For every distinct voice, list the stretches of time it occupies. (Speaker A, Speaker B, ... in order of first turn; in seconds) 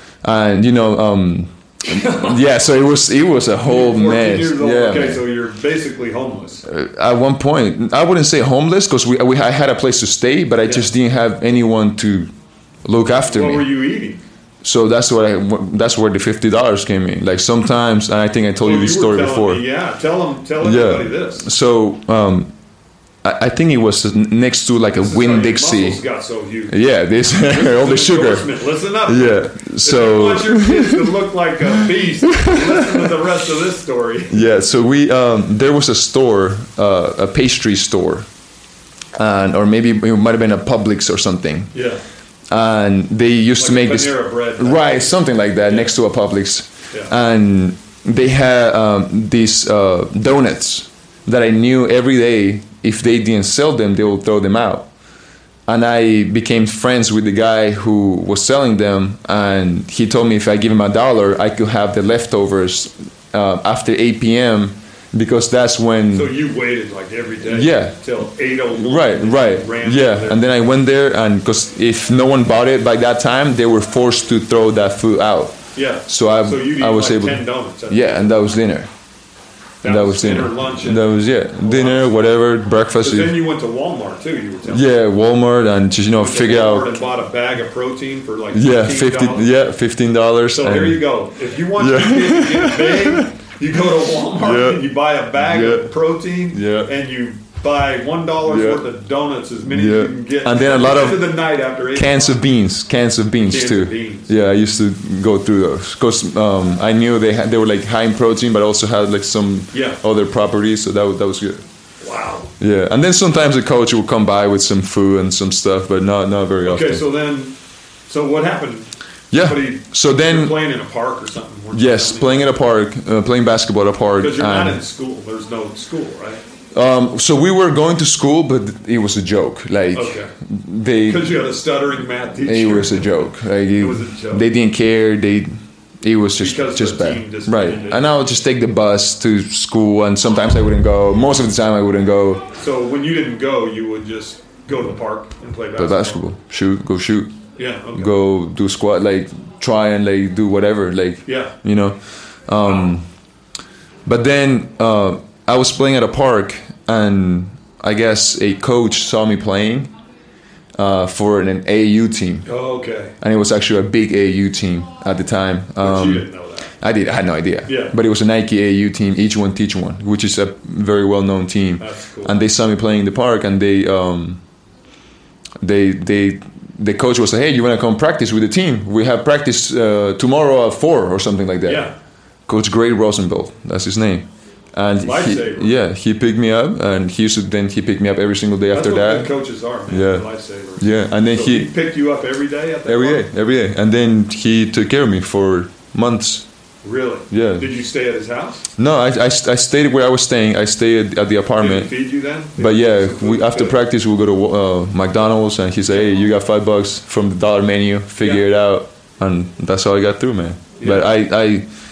Speaker A: 0.2-5.2, 6.7-12.3, 12.8-13.8, 14.6-19.6, 20.6-22.5, 23.2-26.0, 26.7-31.1, 31.7-33.1, 34.3-38.3, 39.1-41.7, 42.5-54.9, 55.7-66.3, 67.5-68.0, 68.7-78.9, 79.8-83.4, 84.7-86.9, 88.5-91.0, 91.8-93.3, 94.4-95.9, 96.5-96.9, 98.5-98.8, 99.7-101.4, 101.9-111.6, 112.6-117.0, 119.3-120.6, 121.7-124.8, 126.7-131.3, 132.4-142.5, 145.8-147.3, 147.9-153.0, 154.1-159.9, 160.8-162.5, 163.2-166.3, 166.8-174.4, 175.6-181.9, 182.5-189.3, 189.9-190.2, 190.8-191.7, 192.8-196.4, 197.3-197.7, 198.8-201.9, 202.6-211.6
Speaker B: 1.8-2.6, 3.6-6.6, 13.2-14.2, 18.6-21.5, 24.9-26.7, 27.4-34.4, 41.7-42.0, 43.6-45.9, 66.1-70.4, 75.7-78.4, 79.8-81.1, 81.6-82.2, 83.0-84.9, 86.2-89.5, 90.5-102.4, 103.5-104.3, 109.7-110.0, 112.0-112.5, 116.6-117.5, 118.1-122.5, 124.2-126.4, 129.9-130.3, 131.0-134.5, 136.4-138.1, 142.5-146.2, 147.6-148.1, 151.2-151.5, 162.4-163.1, 165.8-166.7, 167.7-167.9, 171.8-172.3, 181.6-181.9, 185.0-185.7, 188.7-193.3, 196.8-198.7, 201.6-203.8, 210.8-211.1